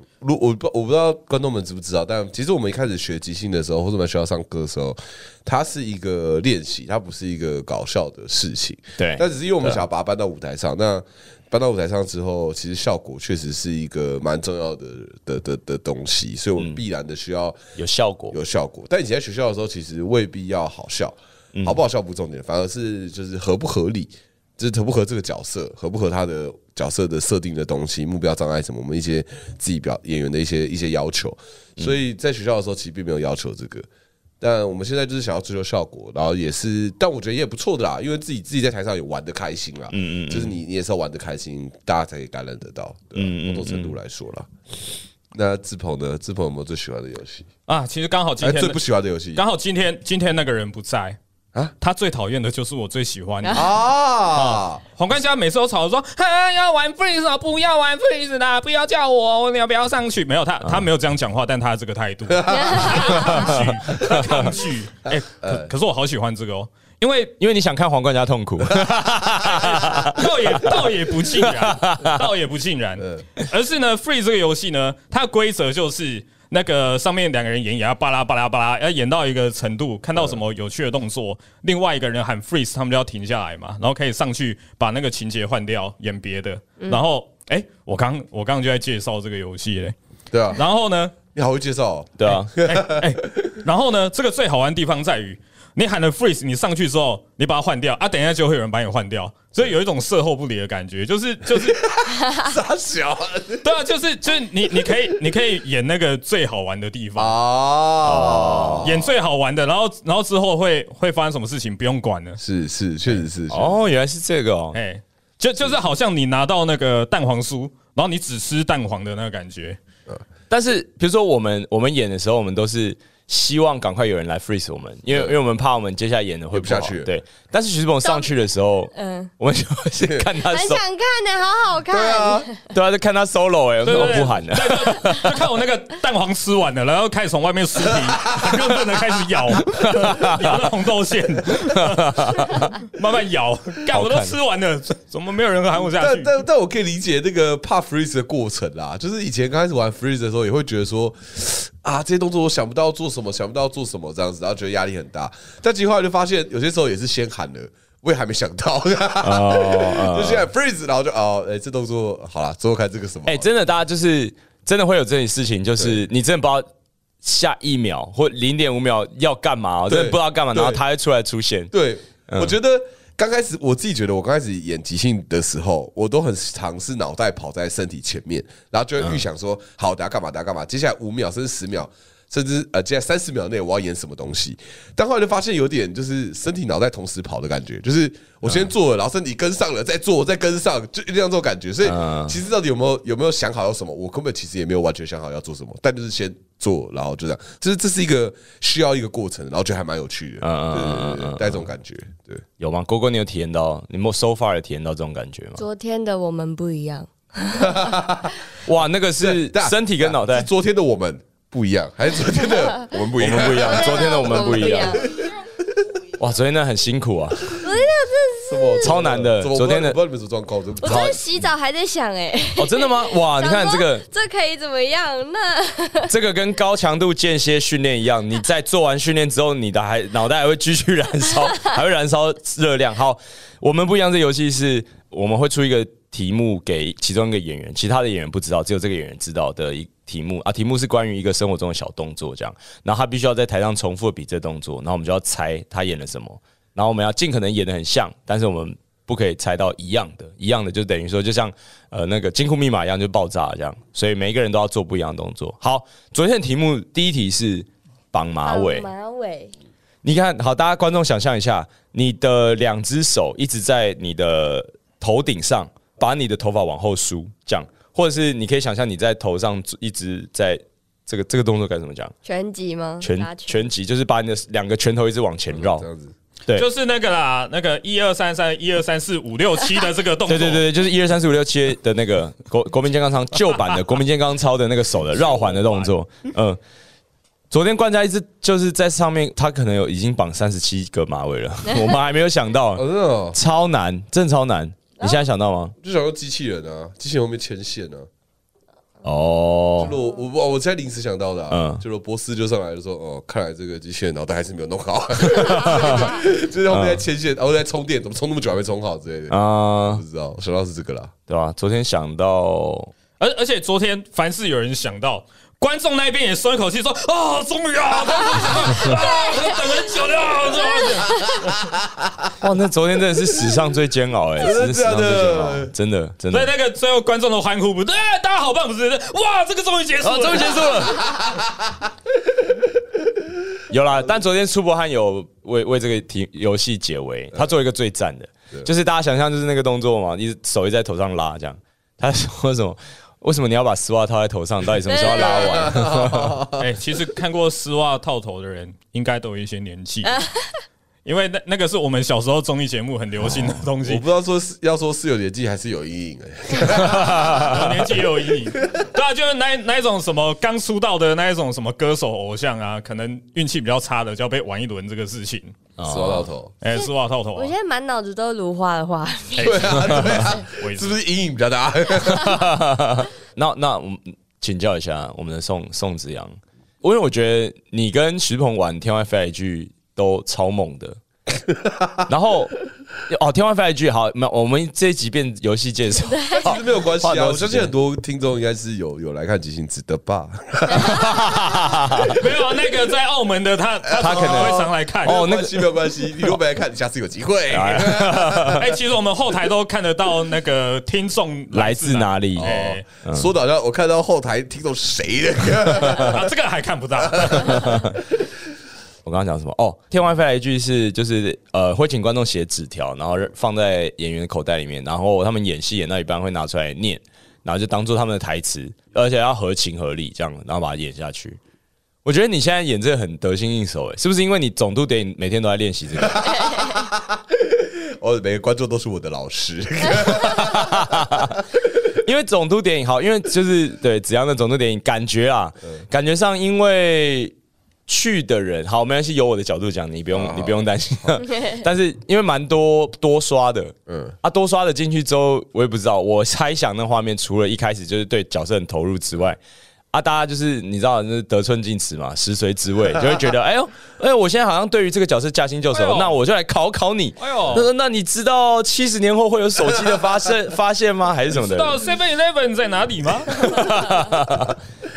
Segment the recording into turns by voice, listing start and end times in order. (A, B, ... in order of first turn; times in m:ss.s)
0:00.2-0:17.6 A
0:09.0-0:09.8 B
0:17.8-0:18.4 B
0:18.3-0:33.8 A
0:34.4-0:44.5 A
0:39.9-0:40.6 B
0:43.1-0:44.0 B
0:45.3-0:47.5 A
0:47.7-0:48.8 C
0:48.4-0:49.4 A
0:49.3-0:51.2 C
0:51.8-0:53.7 C
0:53.5-0:54.8 A
0:54.3-1:07.3 C
1:02.3-1:04.6 A
1:02.5-1:03.5 D
1:05.4-1:05.7 A
1:07.4-1:10.3 B
1:09.4-1:29.9 C
1:11.4-1:12.3 B
1:13.0-1:13.2 A
1:30.3-1:30.6 A
1:30.5-1:31.1 C
1:31.3-1:33.4 A
1:32.2-1:32.5 B
1:32.6-1:41.8 C
1:41.6-1:43.6 A
1:43.6-1:47.4 C
1:47.2-1:49.1 A
1:48.0-1:48.9 B
1:48.8-1:52.4 C
1:52.4-1:53.8 A
1:53.5-1:54.8 B
1:54.7-1:59.8 C
2:00.5-2:10.8 B
2:06.5-2:07.1 A
2:08.9-2:09.3 D
2:10.4-2:12.6 D
2:11.9-2:12.5 A
2:12.7-2:15.4 B
2:13.8-2:26.3 C
2:17.9-2:18.6 A
2:19.7-2:20.6 B
2:21.7-2:22.7 B
2:23.9-2:24.4 B
2:25.9-2:43.5 A
2:39.2-2:40.5 B
2:43.2-2:46.7 B
2:47.2-2:51.7 B
2:49.9-2:50.8 A
2:51.7-3:22.4 A
2:52.3-2:52.5 B
2:59.0-2:59.2 B
3:11.8-3:12.4 B
3:20.4-3:21.7 B
3:22.6-3:25.6 B
3:25.6-3:27.8 D
3:27.6-3:28.4 A
3:28.6-3:30.5 B
3:29.2-3:35.1 A
3:33.2-3:35.1 B
3:33.4-3:35.1 D
3:36.2-3:37.6 B
3:37.6-3:39.0 D
3:38.5-3:41.2 A
3:38.8-3:40.0 B
3:40.8-3:46.1 D
3:40.8-3:41.2 B
3:42.6-3:44.0 B
3:46.1-4:18.9 B
4:18.4-4:19.5 D
4:20.0-4:32.1 B
4:32.2-4:33.6 D
4:33.0-4:35.8 B
4:35.5-4:36.1 A
4:36.5-4:40.7 C
4:40.3-4:46.6 B
4:45.3-4:45.9 C
4:47.5-4:55.7 B
4:52.7-4:53.4 A
4:55.8-4:58.1 A
4:59.0-4:59.9 B
4:59.8-5:11.1 A
5:01.5-5:01.8 B
5:05.3-5:07.0 B
5:09.3-5:10.0 B
5:11.3-5:12.9 B
5:13.2-5:21.6 C
5:22.4-5:26.5 B
5:24.4-5:25.7 A
5:26.3-5:30.8 C
5:30.0-5:31.2 B
5:31.0-5:31.4 A
5:33.7-5:46.4 B
5:44.9-5:45.4 D
5:45.0-5:46.6 A
5:46.6-5:50.2 C
5:50.0-5:50.5 D
5:51.0-5:54.0 C
5:53.2-5:53.5 B
5:53.8-5:58.8 A
5:56.8-6:05.5 C
5:56.9-5:57.6 B
6:05.8-6:06.3 B
6:05.8-6:06.5 A
6:06.6-6:07.5 C
6:06.7-6:09.8 D
6:09.4-6:11.0 C
6:09.4-6:12.5 A
6:12.1-6:21.0 B
6:22.1-6:22.6 B
6:23.1-6:27.7 B
6:26.0-6:26.5 D
6:26.3-6:31.5 A
6:30.7-6:32.2 B
6:32.1-6:35.3 C
6:33.8-6:38.6 A
6:34.0-6:35.7 B
6:37.5-6:38.6 B
6:38.5-6:42.8 C
6:41.5-6:42.5 B
6:42.4-6:46.2 A
6:43.0-6:43.3 B
6:45.8-6:47.9 C
6:47.0-6:47.6 A
6:47.5-6:48.0 B
6:49.0-7:01.4 B
7:02.0-7:06.4 B
7:06.0-7:11.3 A
7:10.1-7:11.4 B
7:12.0-7:17.3 B
7:17.9-7:29.4 B
7:20.1-7:20.6 A
7:23.9-7:24.1 A
7:29.9-7:41.8 B
7:35.7-7:36.1 C
7:37.2-7:37.7 C
7:41.3-7:43.7 C
7:43.4-7:44.6 B